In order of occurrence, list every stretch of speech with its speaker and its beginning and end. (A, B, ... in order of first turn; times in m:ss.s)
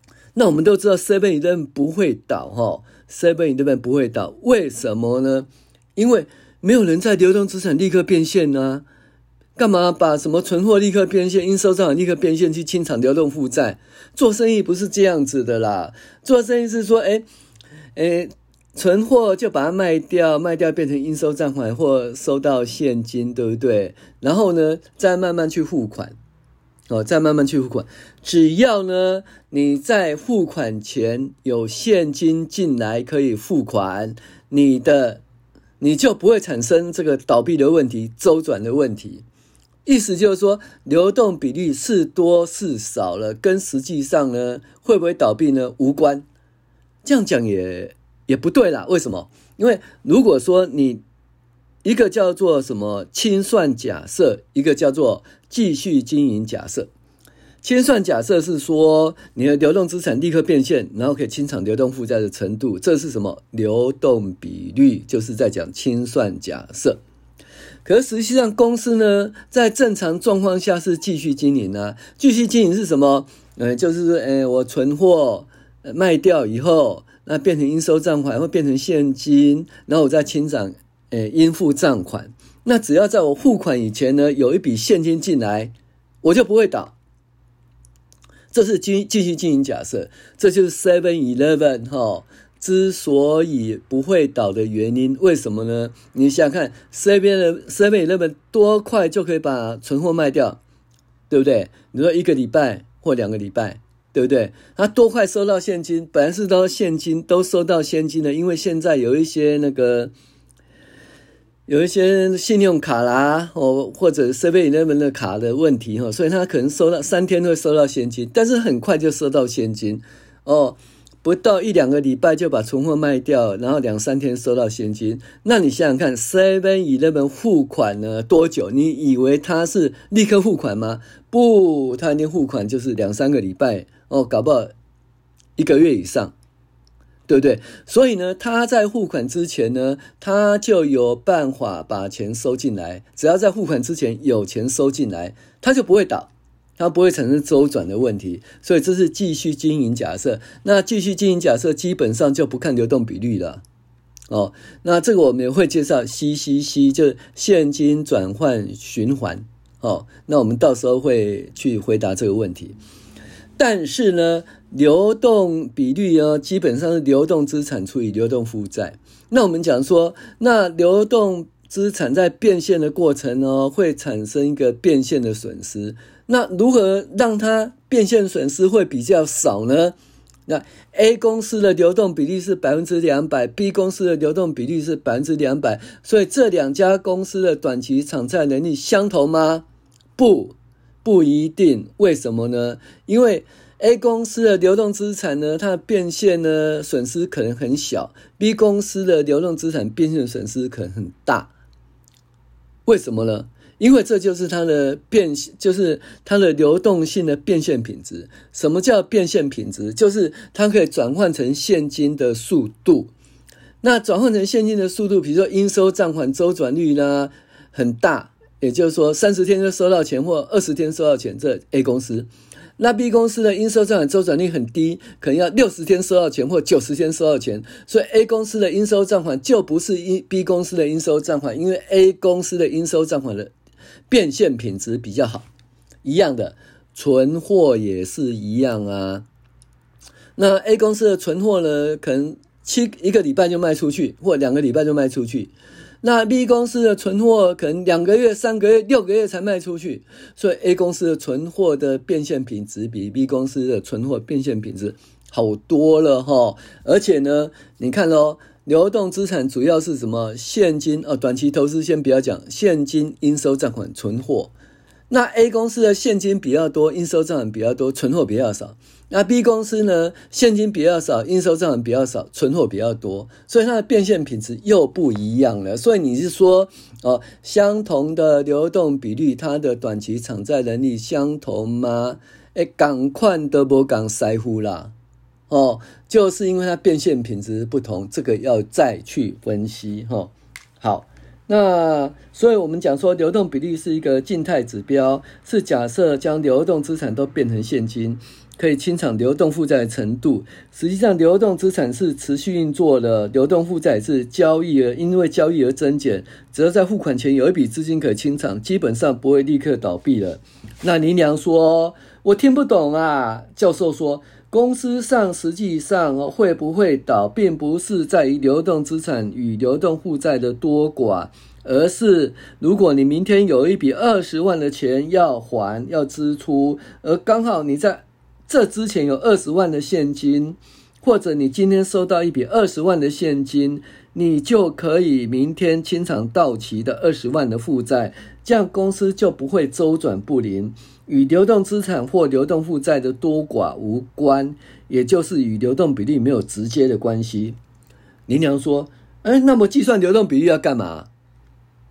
0:00.4-0:08.8 A
0:09.6-0:17.2 A
0:18.0-0:26.2 A
0:26.9-0:35.2 A
0:35.8-0:39.2 A
0:39.8-0:46.2 A
0:47.0-0:51.0 A
0:51.8-0:56.9 A
0:57.6-1:07.0 A
1:07.8-1:27.0 A
1:28.5-1:40.6 A
1:41.3-1:50.1 A
1:51.7-2:14.7 A
2:15.6-2:16.3 A
2:17.3-2:33.6 A
2:34.3-2:42.8 A
2:43.6-3:00.0 A
3:00.5-3:09.6 A
3:10.2-3:21.5 A
3:22.9-3:33.1 A
3:33.8-3:53.5 A
3:54.1-3:55.5 A
3:56.0-3:59.2 A
4:00.4-4:24.5 A
4:25.1-4:44.9 A
4:45.5-5:47.6 A
5:48.3-5:51.1 A